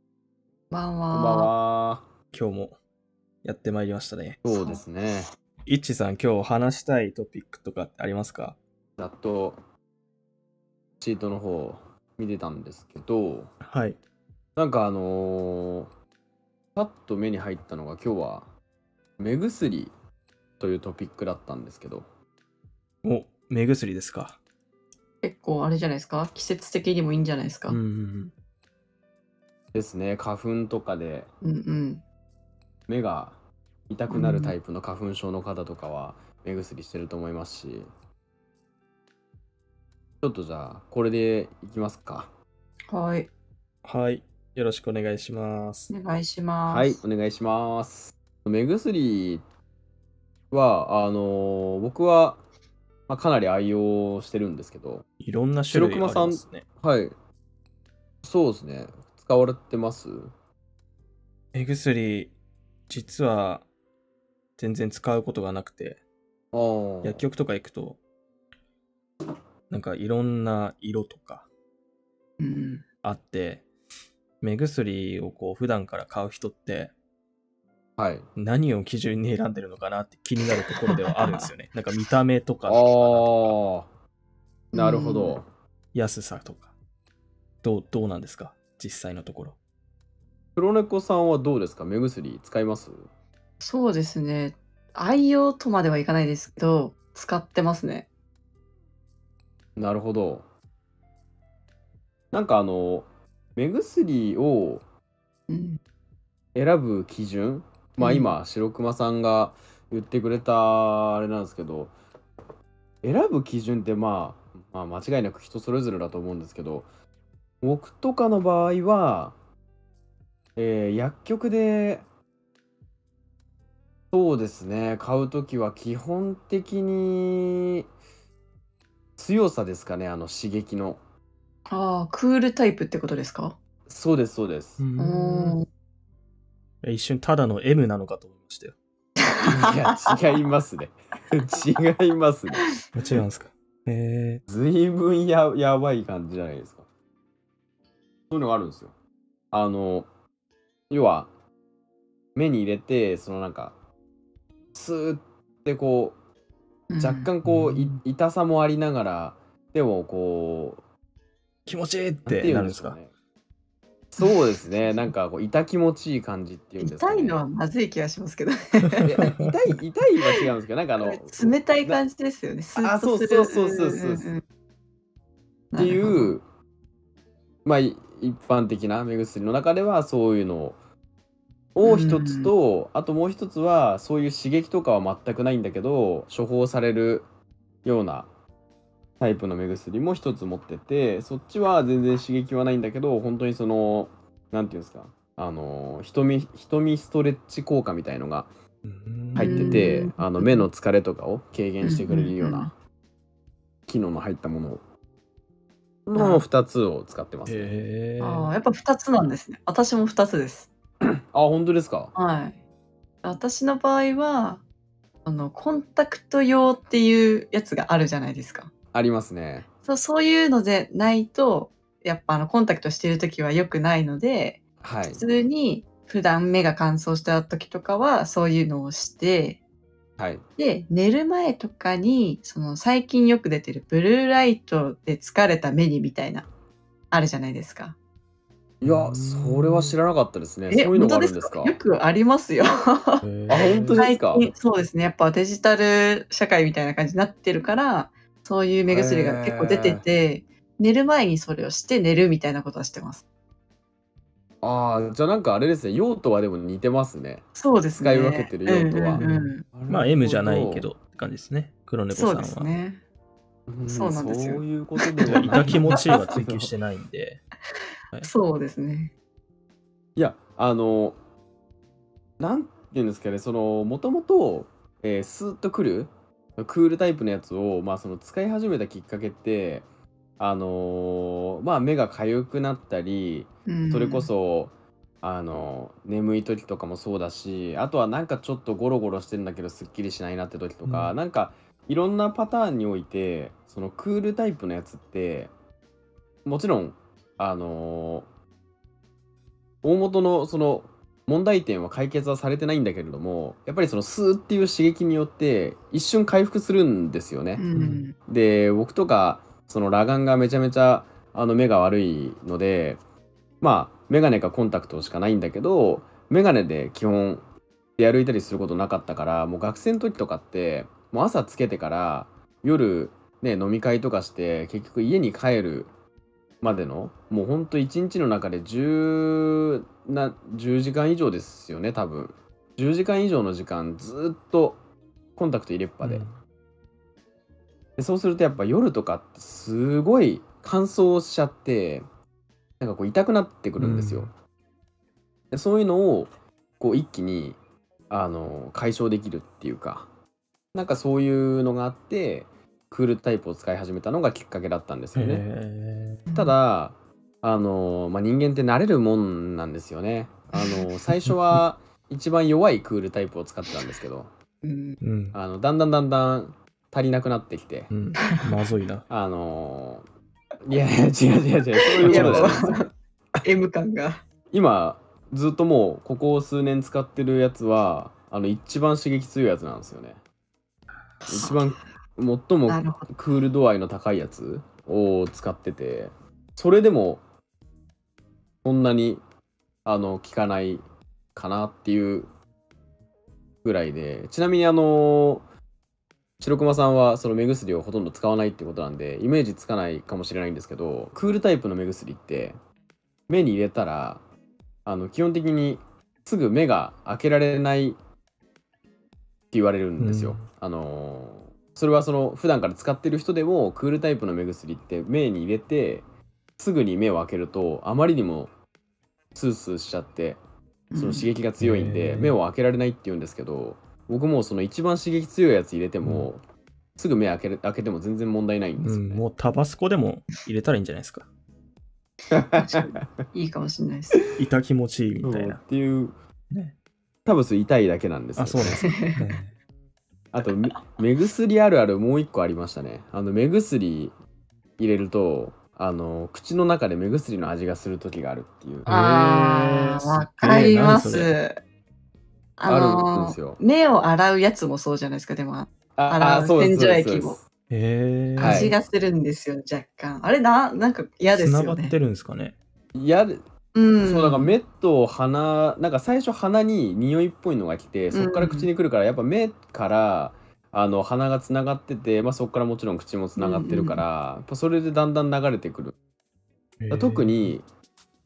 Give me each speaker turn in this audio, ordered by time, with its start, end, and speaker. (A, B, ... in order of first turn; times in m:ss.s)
0:00.7-0:01.5 A
0:01.1-0:02.0 B
0:02.3-0:02.8 C
0:03.4-0:04.4 C
0:04.4-0:05.3 B
0:04.5-0:04.8 A
0:05.7-0:08.6 C
0:09.0-0:09.6 B
0:11.0-0:13.5 B
0:13.6-0:14.0 C
0:14.6-0:15.9 B
0:16.7-0:18.5 B
0:19.2-0:19.9 B
0:20.6-0:22.1 B
0:23.0-0:24.4 C
0:25.2-0:27.8 A
0:27.7-0:28.3 C
0:29.7-0:31.3 B
0:31.4-0:32.0 A
0:32.9-0:37.9 B
0:34.1-0:34.6 A
0:40.2-0:42.3 B
0:42.9-0:43.3 A
0:43.8-0:45.9 C
0:45.9-0:47.0 A
0:46.7-0:49.4 B
0:50.5-0:52.4 B
0:53.1-0:55.0 B
0:55.2-0:56.6 C
0:55.7-0:57.1 B
0:58.2-1:00.3 B
1:01.5-1:02.3 C
1:02.9-1:03.6 C
1:04.6-1:06.0 C
1:06.5-1:07.2 B
1:07.0-1:08.0 C
1:09.7-1:11.5 C
1:12.4-1:12.8 A
1:13.0-1:13.6 C
1:14.4-1:16.9 C
1:18.0-1:18.3 B
1:18.4-1:23.6 C
1:20.7-1:21.4 A
1:22.7-1:23.9 B
1:24.7-1:25.4 A
1:24.7-1:25.5 B
1:25.9-1:26.7 C
1:27.6-1:29.6 C
1:30.6-1:33.0 B
1:33.6-1:38.1 A
1:39.8-1:40.5 B
1:42.3-1:44.8 B
1:45.5-1:45.8 A
1:46.5-1:51.9 B
1:48.0-1:48.3 A
1:53.0-1:56.9 B
1:57.6-1:59.4 B
2:00.6-2:02.0 B
2:04.1-2:07.8 B
2:09.2-2:11.0 B
2:11.7-2:13.6 A
2:13.9-2:14.8 B
2:14.8-2:15.6 C
2:15.0-2:15.7 A
2:16.8-2:18.8 C
2:19.4-2:22.6 B
2:22.9-2:24.4 C
2:24.5-2:26.9 B
2:28.3-2:28.9 B
2:29.5-2:30.1 B
2:30.9-2:31.3 B
2:32.3-2:33.8 B
2:34.7-2:36.2 B
2:36.9-2:37.3 A
2:37.0-2:40.8 B
2:37.4-2:38.0 C
2:41.6-2:43.0 C
2:42.2-2:43.1 B
2:44.1-2:47.4 B
2:46.8-2:49.1 A
2:49.0-2:52.0 B
2:51.0-2:54.4 A
2:52.8-2:54.3 B
2:55.7-2:56.3 A
2:55.8-2:56.4 B
2:57.6-3:00.8 B
3:01.7-3:07.3 B
3:01.8-3:02.5 A
3:07.8-3:08.3 B
3:09.2-3:18.5 B
3:18.8-3:19.8 C
3:19.4-3:22.7 B
3:19.4-3:20.7 A
3:21.8-3:22.7 A
3:23.9-3:24.8 B
3:26.0-3:27.7 B
3:26.1-3:26.4 A
3:27.5-3:28.5 C
3:28.2-3:30.7 A
3:31.3-3:32.1 B
3:32.1-3:32.6 A
3:33.2-3:34.6 A
3:35.2-3:38.7 A
3:38.9-3:39.7 B
3:39.8-3:49.6 A
3:44.8-3:45.2 B
3:50.2-3:50.4 B
3:50.6-3:56.5 A
3:57.1-3:58.0 A
3:58.8-4:01.8 B
3:58.8-4:00.0 C
4:00.7-4:13.2 A
4:03.2-4:04.1 C
4:03.5-4:04.5 B
4:08.9-4:10.0 B
4:14.6-4:20.9 B
4:17.5-4:19.6 A
4:19.2-4:22.7 C
4:22.1-4:23.0 A
4:23.7-4:26.7 B
4:23.9-4:26.2 A
4:25.2-4:27.4 C
4:28.2-4:29.1 A
4:30.2-4:31.2 B
4:32.4-4:39.8 B
4:40.4-4:55.5 B
4:43.7-4:44.3 A
4:50.8-4:51.2 C
4:56.4-4:58.3 B
4:59.8-5:07.6 B
5:07.6-5:08.2 A
5:07.7-5:08.1 C
5:08.3-5:13.0 B
5:13.6-5:17.4 B
5:18.0-5:25.9 B
5:26.6-5:34.8 B
5:35.4-5:36.2 B
5:36.0-5:36.4 C
5:38.0-5:42.0 B
5:42.8-5:44.3 B
5:43.8-5:44.3 C
5:45.5-5:47.6 B
5:48.1-5:50.1 B
5:50.7-5:55.4 B
5:55.1-5:56.2 C
5:56.3-5:56.5 A
5:56.3-6:04.3 B
6:00.5-6:00.9 A
6:01.2-6:01.6 C
6:04.6-6:05.0 A
6:05.0-6:05.4 C
6:05.3-6:07.9 B
6:07.9-6:09.0 C
6:08.2-6:08.5 A
6:09.1-6:10.0 B
6:10.6-6:12.8 B
6:12.0-6:12.8 C
6:12.0-6:12.9 A
6:13.4-6:14.2 A
6:14.5-6:20.2 B
6:21.2-6:21.8 A
6:21.2-6:27.2 B
6:22.7-6:23.1 A
6:28.6-6:29.2 B
6:29.8-6:32.3 B
6:33.6-6:35.4 B
6:36.4-6:42.6 B
6:43.3-6:44.2 B
6:44.8-6:48.0 B
6:49.5-6:56.0 B
6:50.0-6:50.4 C
6:56.6-6:58.5 B
6:59.3-7:00.4 B
7:00.9-7:01.3 A
7:00.9-7:06.4 B
7:01.6-7:02.4 C
7:06.0-7:06.3 C
7:07.0-7:09.2 B
7:08.8-7:11.3 C
7:12.3-7:13.0 B
7:12.6-7:14.2 A
7:14.3-7:15.6 C
7:15.2-7:16.2 B
7:17.2-7:18.8 B
7:18.4-7:19.5 C
7:18.8-7:19.2 A
7:20.3-7:24.1 B
7:24.8-7:28.9 B
7:28.8-7:31.4 C
7:28.8-7:31.6 A
7:32.6-7:37.4 A
7:32.7-7:33.6 B
7:36.0-7:37.4 B
7:37.7-7:38.7 C
7:38.4-7:38.8 B
7:38.4-7:42.0 A
7:41.3-7:42.6 C
7:42.9-7:43.4 B
7:43.7-7:44.5 A
7:44.0-7:55.9 B
7:48.1-7:48.7 A
7:53.4-7:54.0 A
7:56.8-7:57.5 C
7:56.9-7:57.7 B